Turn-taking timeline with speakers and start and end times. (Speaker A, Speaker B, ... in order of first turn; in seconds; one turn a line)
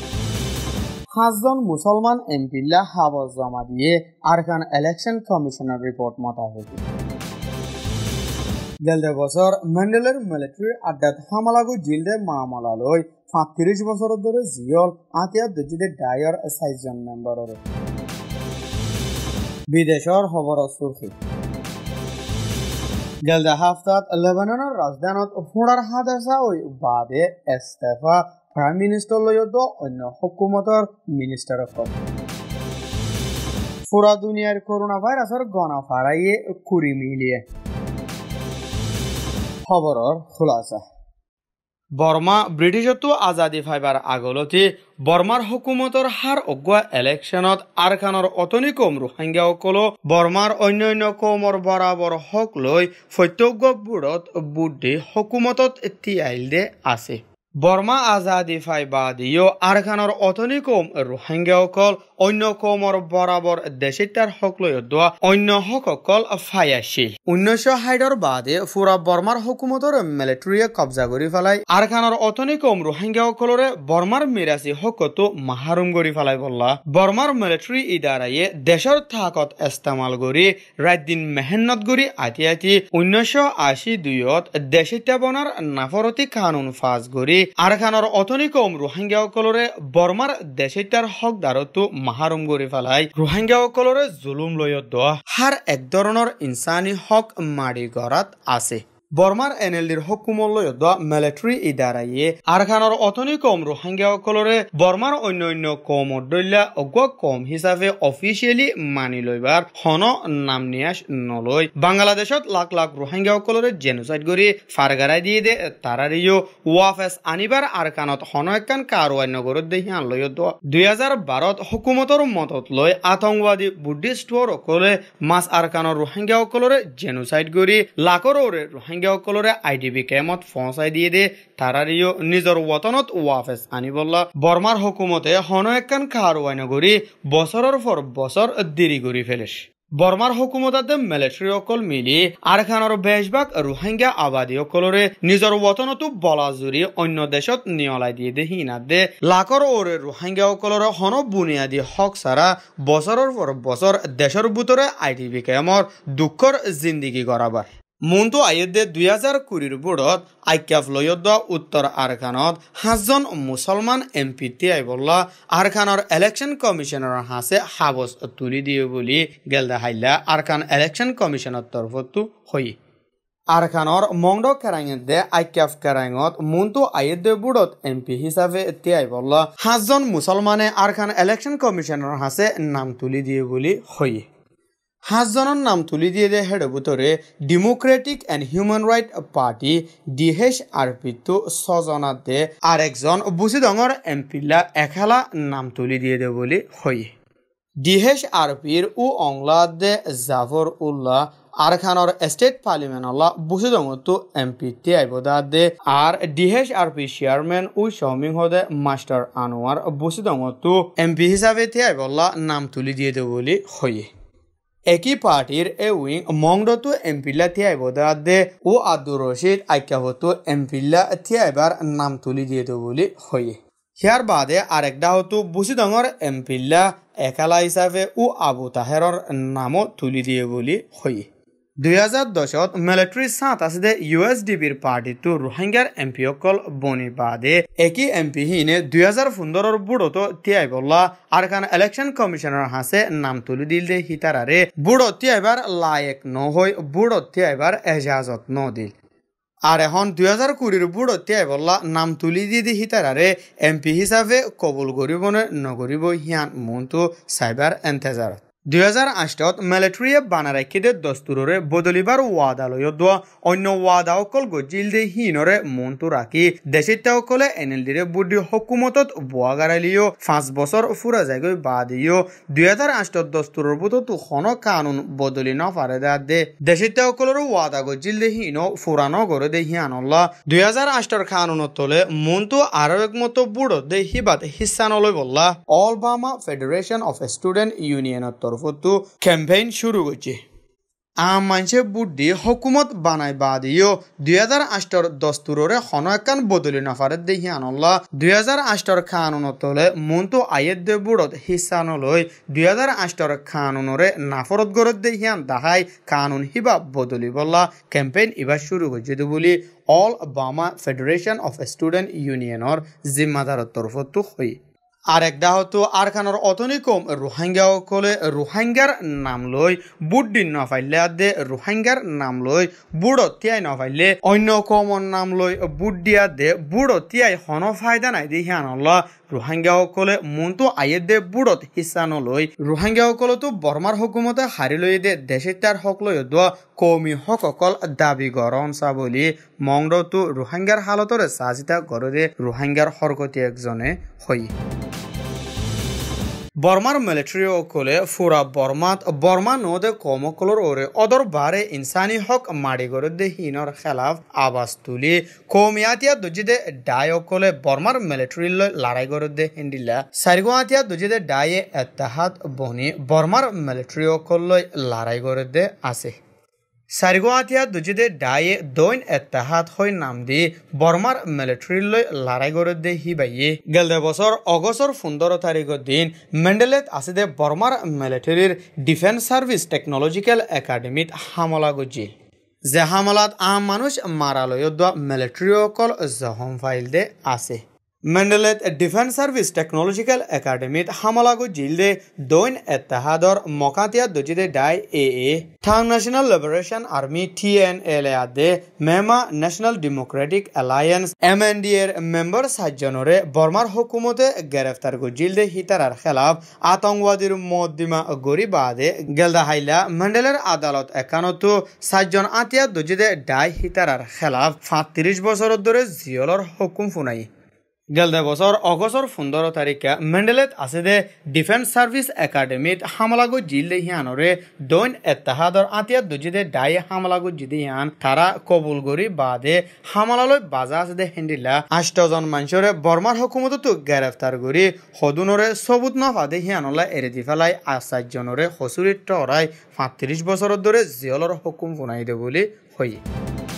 Speaker A: 1.1-6.8
Speaker A: 8.8-17.6
Speaker A: 19.7-21.1
Speaker A: 23.2-31.9
Speaker A: 33.9-37.4
Speaker A: 39.7-40.8
Speaker A: 42.0-172.8
Speaker A: 173.5-184.3
Speaker A: 185.1-197.1
Speaker A: 197.8-214.1
Speaker A: 214.9-231.3
Speaker A: 231.8-248.9
Speaker A: 249.7-290.4
Speaker A: 291.2-314.6
Speaker A: 315.1-344.5
Speaker A: 346.6-366.2
Speaker A: 366.9-382.1
Speaker A: 382.7-417.3
Speaker A: 417.9-443.0